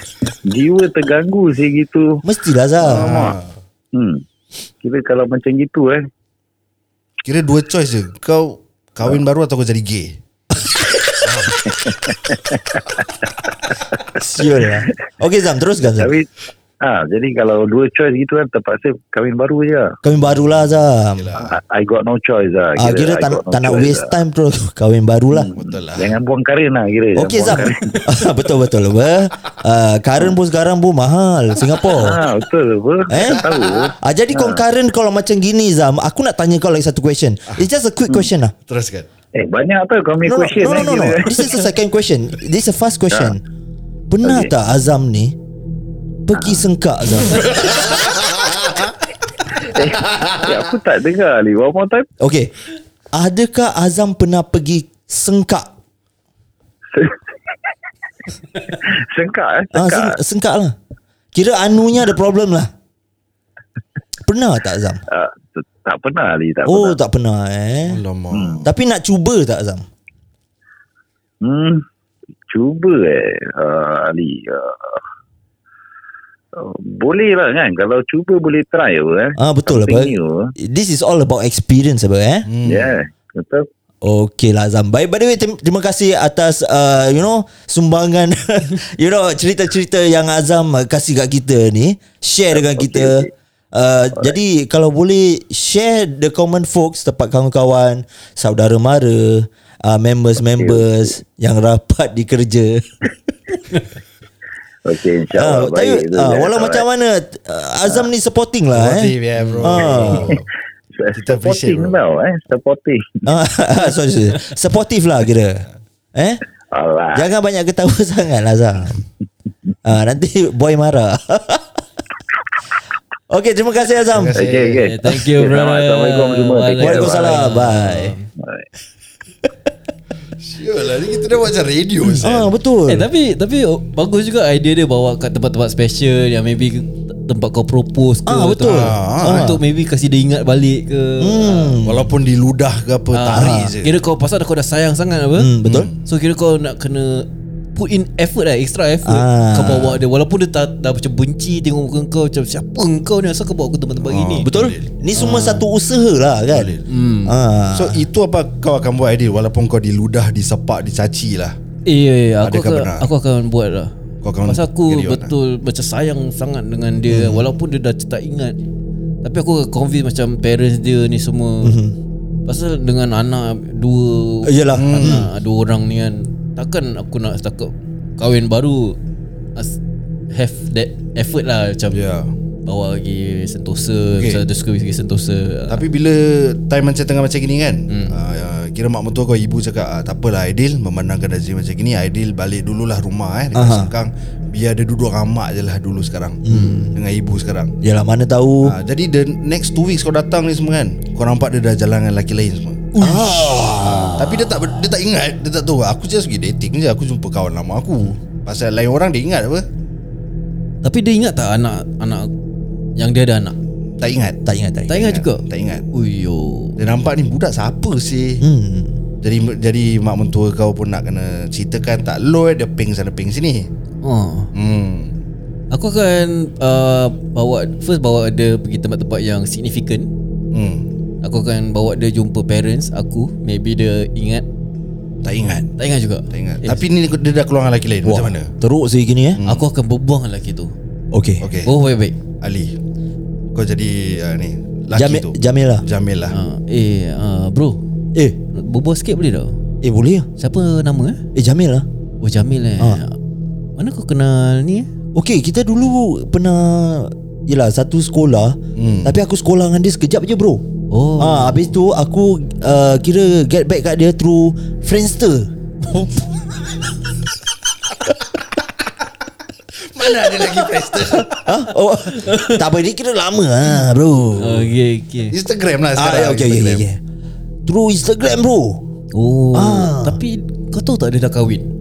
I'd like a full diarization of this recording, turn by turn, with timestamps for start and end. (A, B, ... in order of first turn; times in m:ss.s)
0:00.3-0:02.2 A
0:02.2-0:03.3 B
0:02.8-0:03.4 A
0:02.8-0:03.5 C
0:03.9-0:04.2 A
0:04.8-0:06.0 A
0:07.2-0:10.2 C
0:11.2-0:12.0 C
0:11.5-0:13.1 A
0:13.7-0:14.9 A
0:14.2-0:16.1 B
0:15.8-0:16.3 A
0:16.8-0:20.0 A
0:20.0-0:21.4 B
0:20.1-0:21.6 C
0:21.4-0:24.1 A
0:22.8-0:25.5 B
0:25.3-0:28.0 A
0:25.6-0:26.2 C
0:27.2-0:32.2 B
0:31.9-0:34.6 A
0:33.1-0:38.5 B
0:38.7-0:39.1 C
0:39.3-0:41.7 A
0:40.2-0:43.4 B
0:44.1-0:45.4 B
0:44.2-0:44.5 A
0:46.3-0:47.8 B
0:46.3-0:46.6 A
0:47.6-0:48.9 C
0:49.5-0:52.1 A
0:52.2-0:52.5 B
0:53.1-0:55.7 B
0:56.9-0:57.2 A
0:58.6-1:00.2 A
0:59.7-1:00.8 B
1:01.3-1:02.7 B
1:04.2-1:05.0 B
1:05.1-1:07.0 A
1:06.7-1:08.0 B
1:07.8-1:08.7 C
1:08.3-1:08.6 A
1:08.6-1:09.9 B
1:11.4-1:11.8 A
1:12.5-1:15.0 A
1:16.5-1:20.5 A
1:19.4-1:22.5 B
1:22.5-1:23.0 C
1:22.6-1:23.7 A
1:24.0-1:43.1 B
1:32.5-1:33.3 A
1:40.4-1:41.1 A
1:44.9-1:46.8 A
1:45.4-1:50.4 B
1:48.7-1:50.5 C
1:49.4-1:49.8 D
1:50.1-1:50.4 A
1:51.0-1:53.3 A
1:51.1-1:52.0 C
1:53.3-1:56.4 B
1:56.7-1:57.3 A
1:57.1-1:59.0 B
1:59.8-2:01.8 B
2:03.3-2:04.4 B
2:04.1-2:04.9 C
2:04.3-2:07.5 A
2:04.8-2:08.3 D
2:06.8-2:08.2 B
2:08.4-2:08.7 A
2:10.4-2:12.5 C
2:12.1-2:13.1 B
2:12.9-2:21.8 D
2:18.3-2:19.6 B
2:18.6-2:19.5 C
2:21.2-2:22.1 B
2:21.8-2:24.0 C
2:23.1-2:25.5 D
2:23.3-2:23.8 B
2:25.4-2:25.9 B
2:25.6-2:26.0 C
2:26.0-2:34.5 D
2:29.0-2:30.0 B
2:34.0-2:34.9 C
2:34.4-2:36.7 B
2:35.2-2:35.6 D
2:36.5-2:36.9 C
2:36.9-2:37.4 D
2:37.2-2:38.0 B
2:37.7-2:41.6 C
2:41.9-2:43.9 D
2:42.4-2:43.1 C
2:44.2-2:45.3 C
2:44.4-2:48.6 D
2:47.1-2:47.4 B
2:49.2-2:51.8 D
2:51.6-2:52.0 B
2:52.5-2:59.0 D
2:54.4-2:55.3 B
2:54.8-2:55.3 C
3:00.3-3:02.0 D
3:01.9-3:02.3 C
3:02.7-3:05.8 D
3:04.1-3:04.4 C
3:05.7-3:17.7 C
3:07.9-3:08.2 D
3:13.5-3:13.9 B
3:16.4-3:16.9 B
3:16.5-3:16.9 D
3:17.8-3:18.8 B
3:18.6-3:22.9 C
3:23.0-3:23.8 D
3:23.0-3:24.6 B
3:23.9-3:29.6 C
3:30.8-3:32.3 D
3:33.0-3:33.6 D
3:34.0-3:35.9 C
3:34.4-3:35.0 B
3:34.9-3:36.8 D
3:36.8-3:38.4 C
3:38.4-3:39.0 B
3:39.2-3:43.7 C
3:44.0-3:44.5 D
3:44.5-3:45.1 C
3:45.7-3:50.1 D
3:50.5-3:50.9 C
3:51.2-3:54.5 D
3:55.2-3:55.7 C
3:55.8-3:56.8 D
3:56.3-3:58.5 C
3:58.0-3:59.4 B
3:59.4-3:59.7 C
3:59.4-4:00.7 D
4:01.1-4:01.5 B
4:01.4-4:01.7 C
4:01.6-4:02.2 D
4:02.4-4:02.8 C
4:03.5-4:06.4 C
4:04.9-4:05.8 B
4:06.3-4:07.8 D
4:08.5-4:09.6 D
4:09.8-4:10.3 B
4:10.4-4:11.2 D
4:11.4-4:11.9 B
4:12.2-4:13.2 D
4:13.8-4:14.9 D
4:15.2-4:20.6 B
4:18.8-4:19.2 C
4:20.9-4:21.7 D
4:21.2-4:25.5 B
4:25.9-4:26.4 D
4:29.8-4:31.4 C
4:31.3-4:34.7 B
4:32.1-4:32.6 D
4:34.4-4:35.4 D
4:35.3-4:36.8 C
4:36.0-4:37.0 B
4:37.7-4:38.8 B
4:39.1-4:41.7 D
4:39.5-4:40.2 B